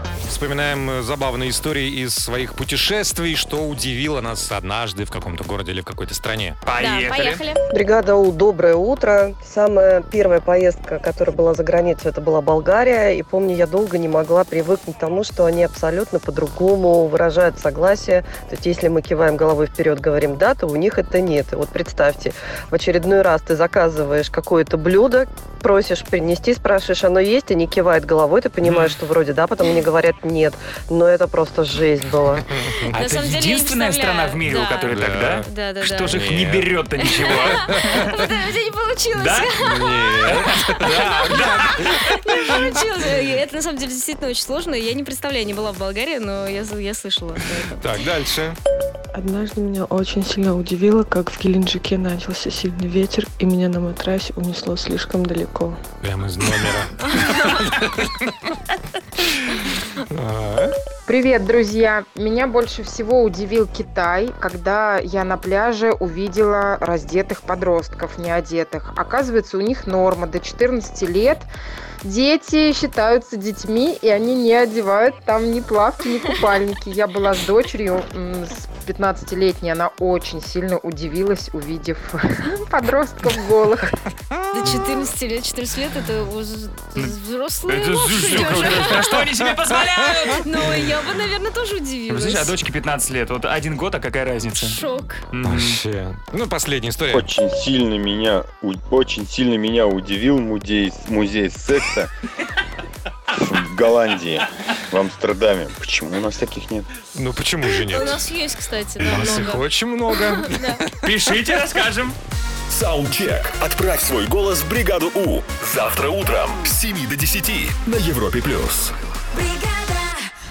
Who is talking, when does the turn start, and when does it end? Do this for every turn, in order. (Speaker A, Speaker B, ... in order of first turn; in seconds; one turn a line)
Speaker A: 0.3-6.6
Speaker B: 6.7-7.4
Speaker C: 6.8-7.6
Speaker D: 7.7-32.7
Speaker B: 28.6-28.9
Speaker A: 32.4-33.0
Speaker B: 32.9-38.2
Speaker C: 32.9-36.2
Speaker A: 34.9-35.5
Speaker A: 36.1-36.7
Speaker C: 37.0-40.3
Speaker A: 37.3-38.1
Speaker B: 39.1-39.5
Speaker A: 39.6-41.9
Speaker B: 40.2-42.3
Speaker C: 40.9-47.8
Speaker A: 47.8-48.6
Speaker E: 49.1-55.8
Speaker A: 56.0-58.5
Speaker C: 57.0-57.7
Speaker A: 59.2-60.7
Speaker F: 61.0-71.5
Speaker F: 72.0-83.9
Speaker C: 84.5-89.3
Speaker B: 87.7-90.9
Speaker C: 90.2-92.5
Speaker B: 92.1-95.8
Speaker C: 94.6-95.2
Speaker A: 95.4-97.2
Speaker G: 97.1-102.1
Speaker G: 103.3-106.9
Speaker A: 107.1-108.3
Speaker C: 107.8-110.8
Speaker A: 109.0-111.1
Speaker B: 111.0-112.2
Speaker H: 112.7-119.0
Speaker C: 119.4-120.1